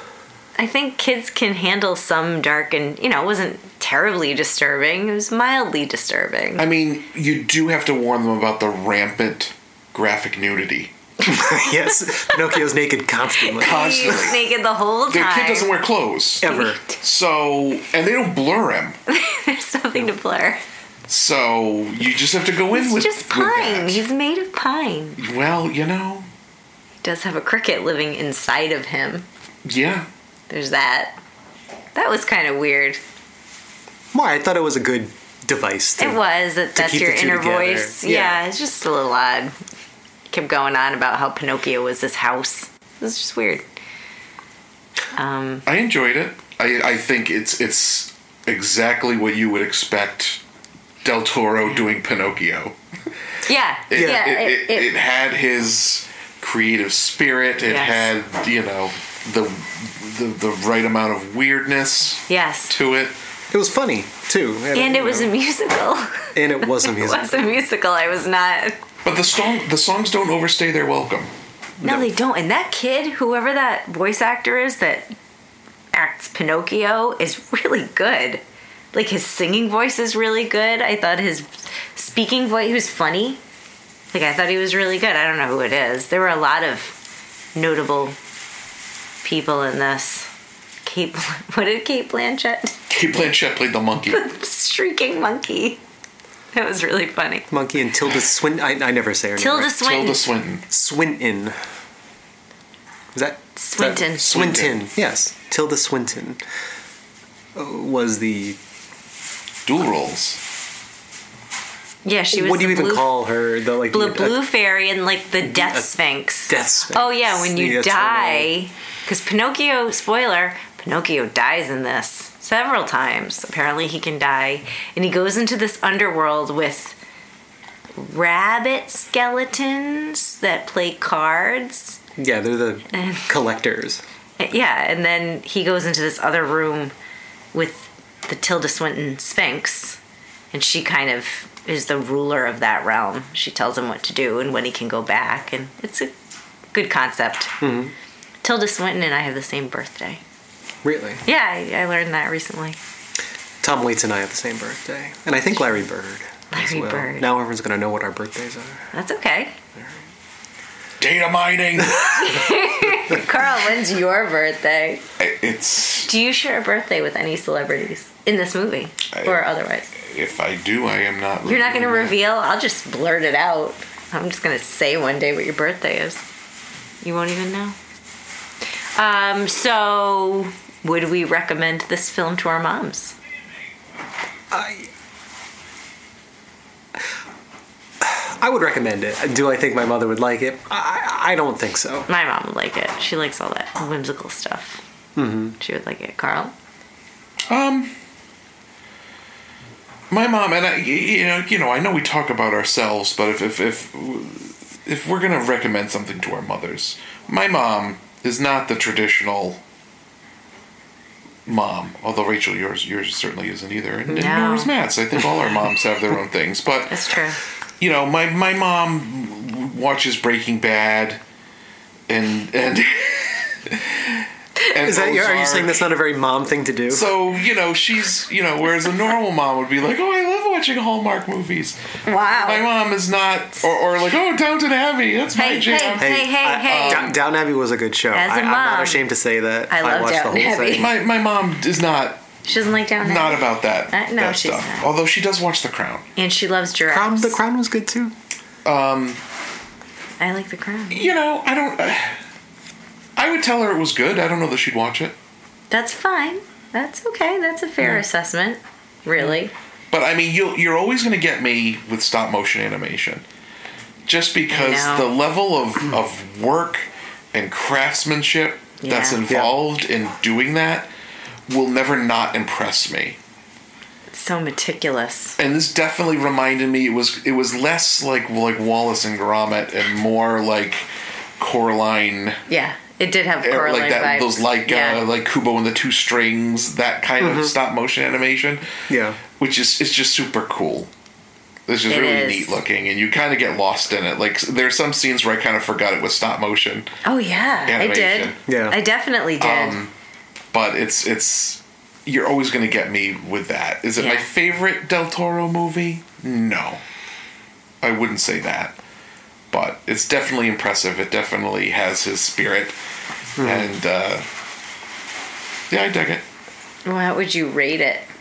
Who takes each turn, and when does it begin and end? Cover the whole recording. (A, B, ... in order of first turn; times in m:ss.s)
0:00.6-0:06.6 A
0:06.6-0:10.9 B
0:11.2-0:14.3 C
0:11.3-0:12.3 A
0:13.4-0:15.7 A
0:13.6-0:14.4 B
0:15.1-0:19.0 B
0:16.4-0:16.8 C
0:16.5-0:16.7 A
0:19.1-0:20.6 A
0:21.1-0:24.0 B
0:22.7-0:25.2 A
0:25.2-0:26.3 B
0:27.0-0:29.2 A
0:29.6-0:30.1 B
0:30.5-0:31.2 A
0:31.9-0:33.0 A
0:34.1-0:36.2 C
0:36.0-0:39.5 A
0:36.7-0:38.4 C
0:40.3-0:43.6 A
0:45.1-0:45.6 A
0:45.6-0:50.4 B
0:51.0-0:52.8 B
0:53.4-0:54.9 A
0:53.9-1:03.2 B
0:53.9-0:54.3 C
0:57.7-0:58.1 A
1:02.3-1:02.8 A
1:03.5-1:05.3 C
1:04.7-1:08.8 A
1:06.3-1:07.5 C
1:09.0-1:11.3 B
1:11.8-1:12.1 C
1:11.8-1:15.1 A
1:15.9-1:18.4 A
1:18.9-1:23.4 A
1:24.1-1:27.0 A
1:27.5-1:28.2 A
1:29.2-1:30.3 A
1:30.8-1:32.8 A
1:32.9-1:34.3 B
1:34.1-1:35.8 A
1:36.5-1:37.5 A
1:37.5-1:39.8 C
1:39.4-1:40.2 A
1:39.8-1:40.6 B
1:40.7-1:41.6 C
1:43.1-1:46.4 C
1:43.6-1:44.5 A
1:44.2-1:44.8 B
1:47.6-1:48.6 C
1:49.6-1:50.4 B
1:52.0-1:53.2 A
1:52.3-1:54.4 C
1:53.9-2:06.9 A
1:55.4-1:55.9 C
1:56.5-1:58.5 C
2:08.0-2:12.0 A
2:12.2-2:14.0 C
2:12.9-2:13.2 A
2:14.4-2:16.9 A
2:17.5-2:20.0 A
2:20.5-2:26.1 A
2:26.7-2:27.5 A
2:27.6-2:27.9 C
2:28.4-2:30.2 A
2:30.8-2:31.2 C
2:31.2-2:32.8 A
2:33.6-2:38.9 C
2:36.5-2:37.3 A
2:38.9-2:39.5 A
2:41.0-2:42.4 B
2:42.1-2:45.0 A
2:45.2-2:46.1 B
2:46.0-2:49.9 A
2:49.1-2:52.2 B
2:51.4-2:56.2 A
2:57.0-2:57.8 A
2:59.0-3:03.2 A
3:04.5-3:04.9 C
3:08.0-3:12.1 C
3:12.1-3:14.8 A
3:15.2-3:15.6 C
3:15.6-3:16.5 A
3:17.5-3:17.9 B
3:20.1-3:29.6 B
3:31.4-3:37.0 B
3:34.1-3:34.7 A
3:36.9-3:37.4 A
3:37.8-3:41.2 B
3:42.1-3:45.9 B
3:44.8-3:47.1 C
3:46.9-3:57.2 B
3:52.0-3:52.7 A
3:55.3-3:57.1 A
3:56.0-4:00.9 C
3:58.1-3:59.0 A
3:59.7-4:00.9 A
4:00.7-4:02.3 B
4:02.4-4:04.9 A
4:03.0-4:06.1 B
4:06.2-4:07.4 A
4:06.9-4:08.1 C
4:08.6-4:09.2 B
4:10.2-4:11.1 A
4:10.9-4:12.2 B
4:13.2-4:15.2 B
4:15.7-4:19.5 A
4:19.9-4:23.2 B
4:24.0-4:30.9 B
4:24.5-4:25.1 A
4:28.8-4:29.2 A
4:31.5-4:33.2 B
4:34.1-4:35.4 A
4:35.4-4:40.8 B
4:41.4-4:42.4 B
4:42.5-4:45.0 A
4:43.4-4:48.7 B
4:47.2-4:47.5 C
4:48.9-4:49.2 C
4:49.3-4:50.9 B
4:51.7-4:56.9 B
4:51.9-4:52.6 A
4:57.0-4:59.8 A
4:57.6-4:58.4 B
4:58.5-4:58.8 C
4:59.4-4:59.9 B
5:00.5-5:06.8 B
5:04.0-5:04.3 A
5:07.8-5:08.8 B
5:09.5-5:12.8 B
5:13.4-5:13.7 C
5:13.4-5:14.2 B
5:15.7-5:16.2 B
5:16.8-5:18.1 A